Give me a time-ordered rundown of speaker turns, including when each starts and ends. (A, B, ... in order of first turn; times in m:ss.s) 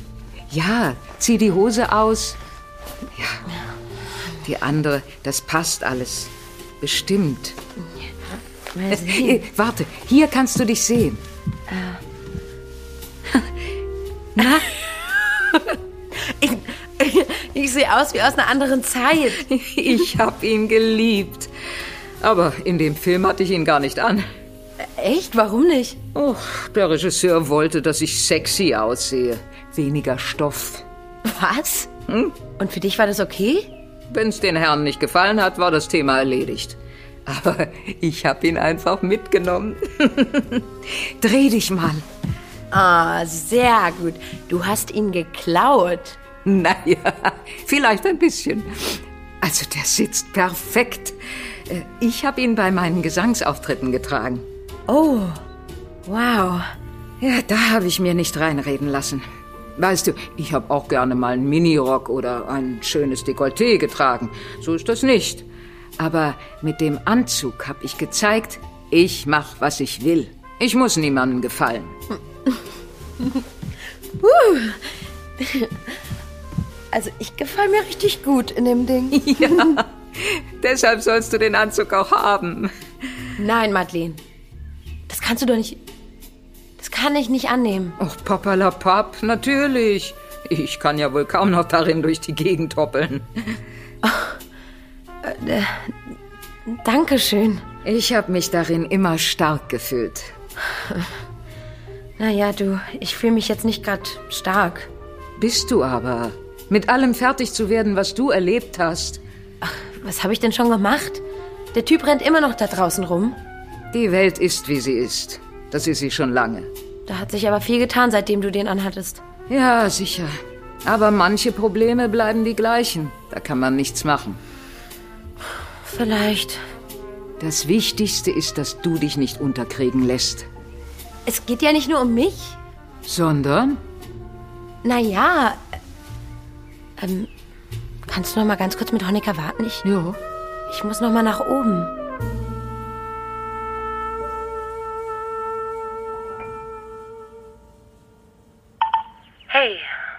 0:00.5-0:02.4 A
0:03.2-0:03.4 A
0:04.4-0:07.6 A
0:08.0-0:09.4 B
0:08.9-0:11.2 A
0:11.7-0:12.0 B
0:14.4-0:14.6 A
0:16.2-0:19.4 B
0:19.4-0:21.5 A
0:22.2-0:24.2 A
0:24.8-0:26.0 B
0:26.2-0:30.8 A
0:31.3-0:31.9 B
0:32.1-0:32.3 A
0:32.6-0:33.7 B
0:34.1-0:42.0 A
0:42.7-0:46.2 B
0:46.4-0:54.4 A
0:54.9-0:55.4 B
0:56.1-0:56.7 B
0:57.2-0:59.2 A
0:59.8-1:05.5 A
1:06.0-1:12.0 A
1:14.2-1:14.8 B
1:15.4-1:15.8 B
1:16.9-1:19.8 B
1:19.1-1:22.7 A
1:23.4-1:24.2 B
1:25.1-1:25.8 B
1:26.8-1:28.0 B
1:28.0-1:33.6 A
1:34.0-1:34.4 B
1:35.2-1:36.2 B
1:36.7-1:37.7 B
1:37.8-1:40.3 A
1:40.8-1:41.1 B
1:42.2-1:44.9 B
1:45.4-1:49.2 A
1:49.6-1:51.2 B
1:51.7-1:53.4 B
1:53.9-1:56.7 A
1:57.1-1:59.2 B
1:59.5-2:00.3 A
2:00.8-2:04.4 A
2:05.8-2:06.6 B
2:07.4-2:10.5 A
2:11.3-2:12.6 B
2:13.1-2:13.8 A
2:14.8-2:15.6 B
2:17.0-2:17.3 B
2:18.1-2:19.8 B
2:19.8-2:20.2 A
2:20.7-2:21.9 B
2:29.5-2:29.9 B